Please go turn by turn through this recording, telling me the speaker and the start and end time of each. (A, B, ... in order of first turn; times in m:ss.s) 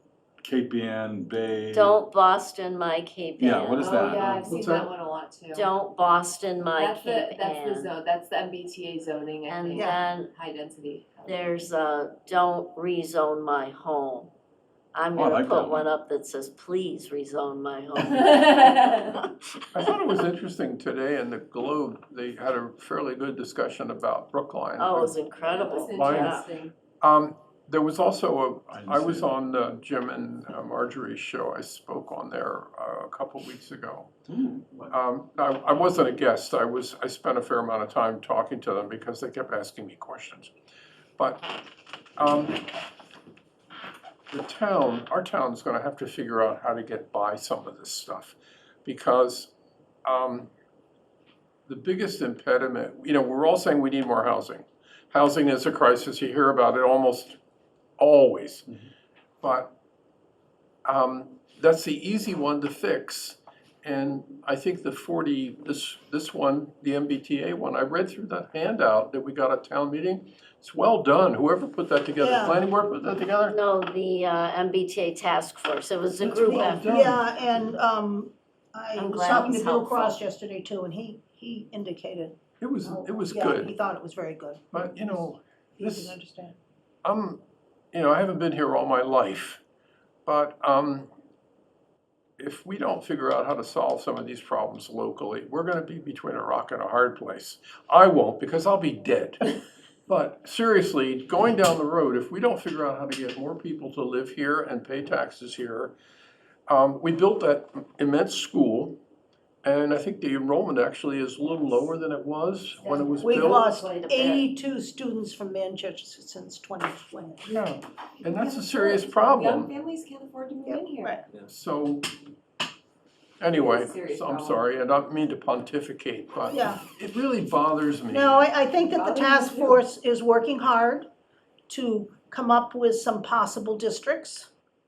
0:00.4-0:02.0 A
0:01.7-0:04.4 B
0:03.4-0:04.5 A
0:03.8-0:05.7 C
0:04.5-0:04.9 D
0:05.5-0:07.9 B
0:06.8-0:11.6 C
0:09.5-0:10.3 B
0:09.8-0:10.0 E
0:11.3-0:14.3 B
0:14.9-0:19.1 B
0:15.2-0:15.9 A
0:18.1-0:19.1 C
0:19.8-0:25.2 D
0:24.8-0:26.5 B
0:25.5-0:26.7 C
0:26.0-0:26.3 D
0:27.0-0:34.2 D
0:28.7-0:29.3 A
0:34.3-0:34.9 A
0:34.9-0:40.5 D
0:41.2-0:41.5 D
0:42.2-0:42.6 D
0:44.3-0:49.5 D
0:50.0-0:50.5 D
0:51.7-0:57.4 D
0:58.0-0:58.7 D
0:59.4-0:59.7 D
1:00.8-1:13.6 D
1:12.2-1:12.6 E
1:13.5-1:16.8 B
1:16.2-1:17.2 D
1:16.4-1:25.3 E
1:19.0-1:20.2 B
1:22.6-1:23.7 D
1:24.7-1:26.2 D
1:25.8-1:26.6 E
1:27.0-1:27.4 D
1:27.9-1:29.6 D
1:30.2-1:31.1 D
1:32.4-1:39.5 D
1:40.1-1:46.0 D
1:46.7-1:49.0 D
1:49.6-1:53.6 D
1:52.7-1:54.5 B
1:53.2-1:57.5 E
1:57.5-1:59.7 D
1:58.2-2:01.2 C
2:00.7-2:01.3 E
2:01.4-2:02.1 D
2:03.4-2:08.5 D
2:03.5-2:04.7 C
2:06.5-2:06.8 E
2:08.1-2:11.1 E
2:08.8-2:09.8 C
2:11.7-2:14.5 E